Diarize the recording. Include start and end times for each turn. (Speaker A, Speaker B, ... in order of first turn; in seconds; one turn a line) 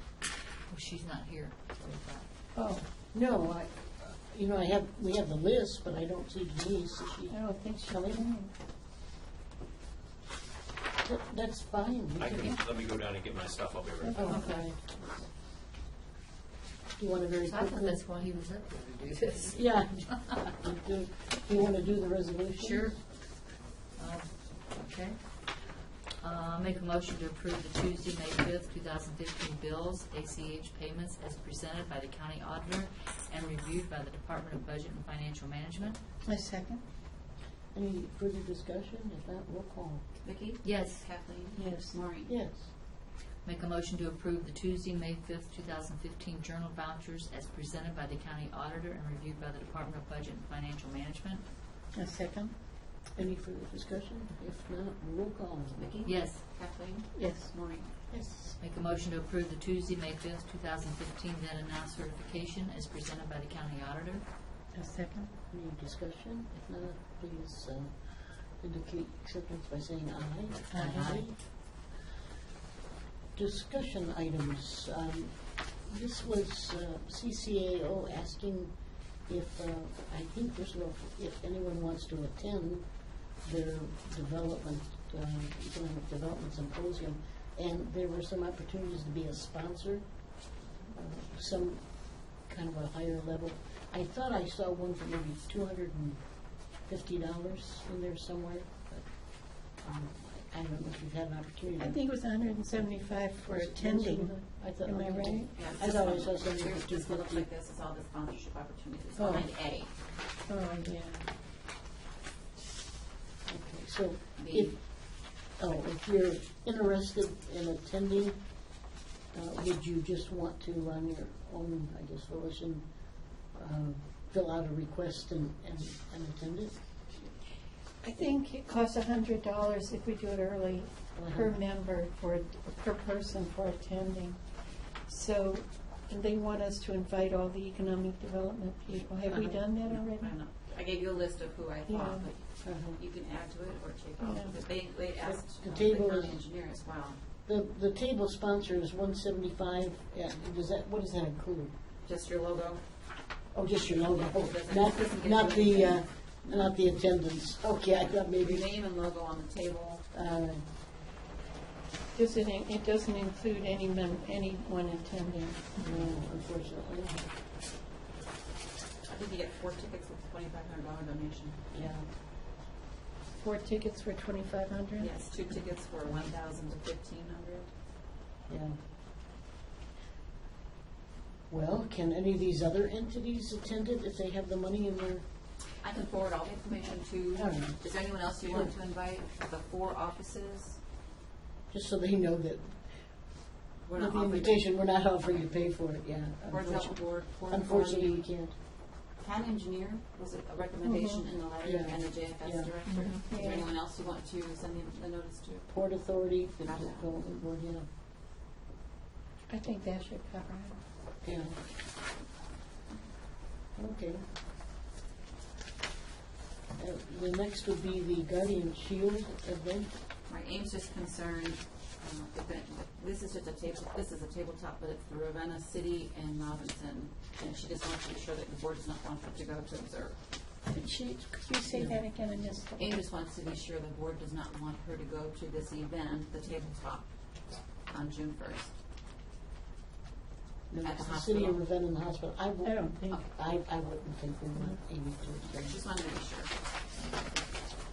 Speaker A: 0.7-2.3
Speaker B: 2.5-2.9
Speaker C: 3.1-8.3
Speaker B: 7.3-8.5
Speaker C: 11.0-12.6
Speaker D: 12.2-14.3
Speaker B: 14.0-14.6
Speaker C: 14.1-14.8
Speaker A: 14.2-14.6
Speaker C: 17.0-18.0
Speaker A: 17.5-19.7
Speaker C: 19.5-23.0
Speaker A: 22.6-23.0
Speaker A: 23.9-25.2
Speaker A: 26.2-36.0
Speaker B: 36.2-36.8
Speaker C: 37.7-40.0
Speaker E: 40.2-42.4
Speaker A: 40.6-41.0
Speaker B: 41.5-42.0
Speaker C: 42.2-42.7
Speaker A: 43.4-51.5
Speaker B: 51.9-52.5
Speaker C: 53.1-56.0
Speaker E: 55.8-57.9
Speaker A: 56.0-56.4
Speaker B: 57.1-57.5
Speaker C: 58.1-58.6
Speaker A: 58.6-64.2
Speaker B: 64.7-65.3
Speaker C: 65.5-67.9
Speaker C: 68.6-71.4
Speaker B: 70.7-71.0
Speaker A: 70.8-71.2
Speaker C: 73.3-75.3
Speaker C: 75.8-78.7
Speaker C: 79.3-82.9
Speaker C: 83.4-90.0
Speaker C: 90.9-91.9
Speaker C: 92.4-96.2
Speaker C: 96.8-102.0
Speaker B: 101.8-105.5
Speaker C: 103.5-107.5
Speaker E: 105.5-109.9
Speaker C: 109.2-109.5
Speaker B: 110.5-111.3
Speaker C: 113.5-118.4
Speaker E: 114.4-114.8
Speaker C: 119.3-122.8
Speaker C: 123.5-126.8
Speaker B: 128.0-134.4
Speaker C: 131.1-131.6
Speaker B: 135.1-140.3
Speaker C: 139.2-139.6
Speaker E: 139.8-147.2
Speaker B: 141.9-142.3
Speaker C: 142.6-143.0
Speaker B: 144.2-144.5
Speaker C: 145.2-146.4
Speaker C: 147.4-151.7
Speaker E: 152.0-152.8
Speaker C: 153.5-158.7
Speaker E: 154.0-156.7
Speaker E: 158.4-160.1
Speaker C: 160.1-160.6
Speaker B: 162.1-165.6
Speaker C: 165.8-167.3
Speaker E: 169.0-171.6
Speaker C: 171.7-172.1
Speaker B: 173.4-175.1
Speaker E: 175.0-177.7
Speaker C: 178.5-178.8
Speaker C: 181.5-185.2
Speaker E: 185.8-190.8
Speaker C: 187.3-187.8
Speaker C: 188.4-188.7
Speaker C: 191.7-192.8
Speaker E: 193.8-195.5
Speaker C: 193.9-198.5
Speaker E: 196.5-198.2
Speaker E: 199.2-205.7
Speaker B: 200.8-201.2
Speaker C: 201.6-202.7
Speaker B: 202.8-203.7
Speaker C: 205.7-207.9
Speaker E: 206.6-207.1
Speaker B: 209.5-210.8
Speaker C: 211.2-211.6
Speaker C: 213.8-214.2
Speaker C: 216.8-219.9
Speaker E: 220.3-230.2
Speaker B: 230.7-233.0
Speaker C: 231.7-232.0
Speaker E: 232.8-237.1
Speaker E: 237.9-238.7
Speaker C: 240.7-245.8
Speaker E: 240.8-241.6
Speaker B: 242.6-243.2
Speaker E: 245.4-247.5